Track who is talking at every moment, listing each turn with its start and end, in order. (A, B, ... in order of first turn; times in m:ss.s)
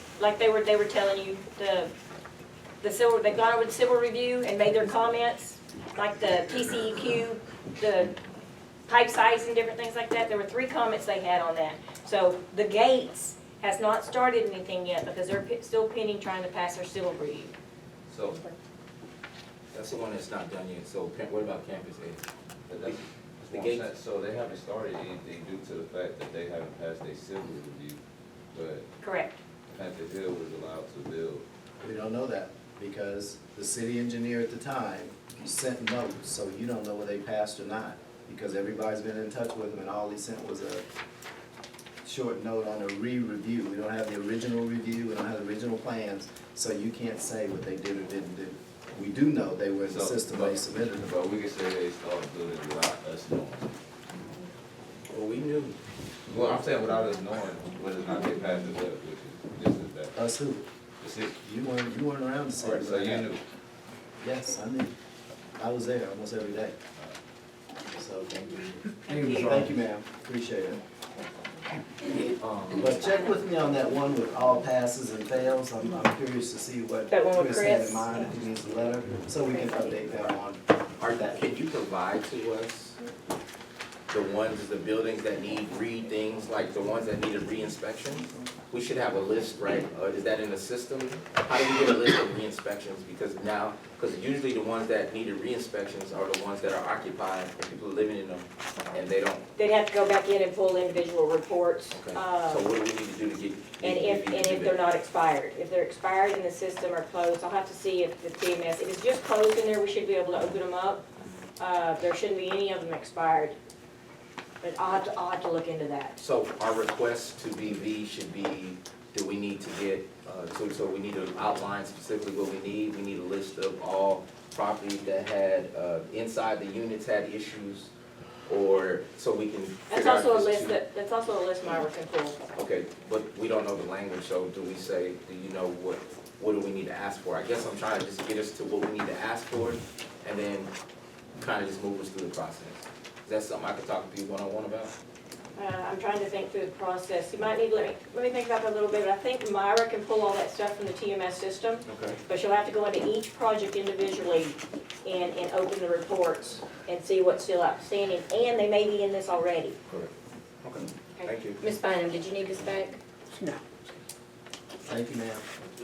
0:00.2-0:01.9 A
0:02.8-0:08.1 A
0:08.9-0:17.5 A
0:18.1-0:18.4 B
0:19.7-0:22.2 C
0:22.7-0:28.0 B
0:22.8-0:23.9 C
0:28.5-0:28.9 B
0:29.0-0:29.4 A
0:29.7-0:31.4 B
0:31.8-0:40.8 D
0:42.0-0:51.1 D
0:49.8-0:53.7 B
0:55.1-0:55.8 C
0:56.3-1:00.1 B
1:00.1-1:00.6 D
1:01.0-1:01.4 B
1:01.4-1:03.3 D
1:02.6-1:03.4 B
1:04.2-1:04.9 D
1:05.6-1:06.7 D
1:07.9-1:10.8 D
1:09.0-1:09.7 A
1:12.1-1:13.0 C
1:12.7-1:21.4 D
1:17.1-1:18.2 A
1:21.0-1:23.0 C
1:24.1-1:39.4 C
1:39.6-1:42.7 A
1:41.9-1:44.8 C
1:43.8-1:51.0 A
1:51.6-1:53.6 A
1:54.6-1:56.2 A
1:56.2-2:07.9 C
2:08.5-2:10.8 C
2:09.9-2:12.4 A
2:12.5-2:20.7 C
2:21.4-2:24.9 C
2:25.6-2:39.8 A
2:31.8-2:32.2 C
2:40.6-2:41.6 C
2:41.1-2:43.0 A
2:44.8-2:45.4 D